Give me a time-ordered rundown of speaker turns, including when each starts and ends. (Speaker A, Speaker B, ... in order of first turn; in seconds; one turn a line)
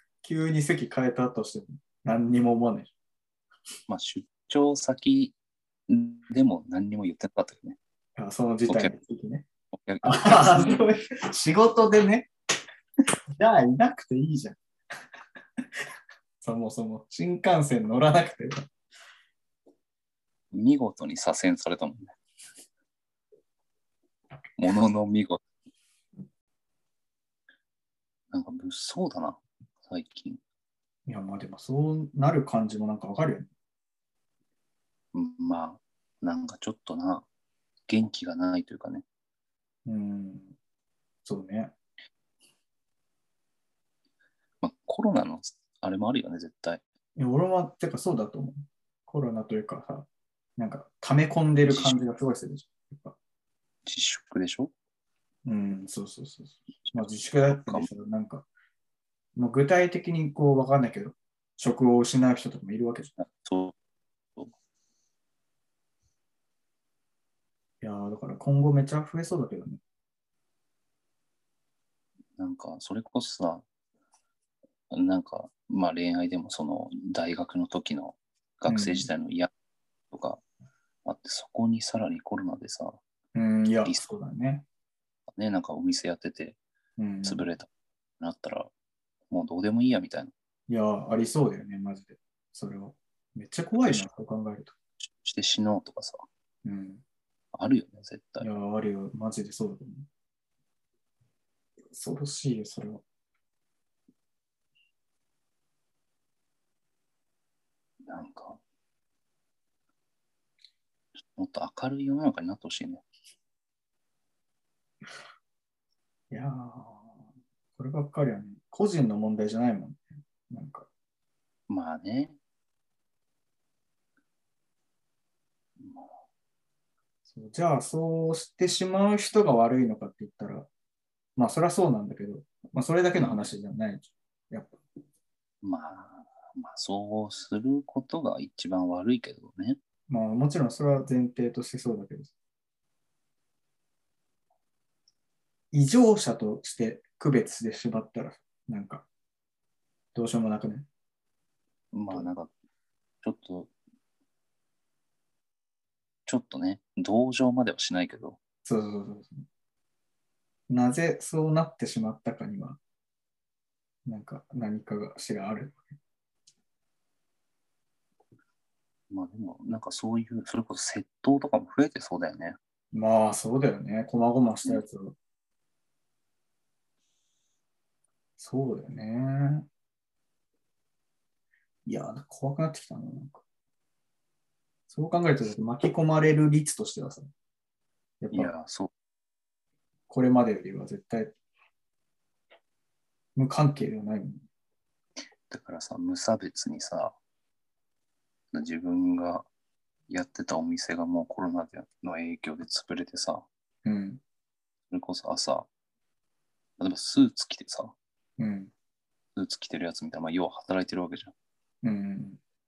Speaker A: 0.2-2.9
Speaker B: 3.9-5.3
Speaker B: 5.9-7.8
Speaker A: 8.2-9.5
Speaker B: 8.7-8.9
Speaker B: 9.7-10.8
Speaker A: 10.0-12.3
Speaker A: 13.3-14.6
Speaker A: 16.4-18.7
Speaker B: 20.5-22.1
Speaker B: 24.6-25.4
Speaker B: 28.3-30.4
Speaker A: 31.1-33.5
Speaker B: 35.1-37.2
Speaker B: 37.9-39.0
Speaker A: 39.9-40.5
Speaker A: 41.2-41.7
Speaker B: 44.6-46.8
Speaker A: 47.2-53.1
Speaker B: 51.7-52.0
Speaker B: 53.9-54.7
Speaker A: 55.4-58.5
Speaker B: 56.9-57.9
Speaker A: 59.4-63.1
Speaker B: 63.2-63.8
Speaker A: 67.8-69.8
Speaker B: 72.4-73.6
Speaker B: 74.9-79.5
Speaker A: 78.7-79.1
Speaker B: 80.1-80.4
Speaker B: 81.0-83.0
Speaker A: 83.3-84.6
Speaker B: 85.3-86.6
Speaker A: 87.0-87.5
Speaker B: 87.2-88.7
Speaker B: 89.3-90.3
Speaker A: 90.7-94.7
Speaker B: 93.8-94.1
Speaker B: 95.0-96.2
Speaker A: 96.6-97.0
Speaker B: 97.5-98.5
Speaker A: 98.4-100.1
Speaker A: 101.9-103.0
Speaker B: 108.1-108.6
Speaker B: 111.2-113.0
Speaker A: 116.3-117.1
Speaker A: 117.8-120.9
Speaker B: 121.7-122.4
Speaker B: 125.8-126.1
Speaker A: 127.3-130.7
Speaker A: 131.3-134.8
Speaker B: 133.1-133.4
Speaker B: 135.6-139.8
Speaker A: 140.1-142.3
Speaker A: 145.7-149.1
Speaker A: 150.1-150.9
Speaker B: 151.9-152.5
Speaker B: 153.2-153.7
Speaker B: 156.2-158.4
Speaker A: 158.6-159.4
Speaker A: 160.7-162.8
Speaker A: 164.1-165.9
Speaker B: 169.1-172.6
Speaker A: 172.9-175.1
Speaker A: 178.4-179.7
Speaker A: 181.8-183.4
Speaker A: 184.9-187.3
Speaker A: 188.2-188.5
Speaker B: 188.3-188.9
Speaker A: 190.1-191.3
Speaker A: 193.3-194.4
Speaker B: 195.5-197.2
Speaker B: 198.5-199.5
Speaker B: 200.1-203.4
Speaker A: 203.8-204.2
Speaker B: 204.9-205.7
Speaker B: 206.8-207.9
Speaker A: 208.4-208.7
Speaker B: 209.3-211.3
Speaker A: 211.8-212.4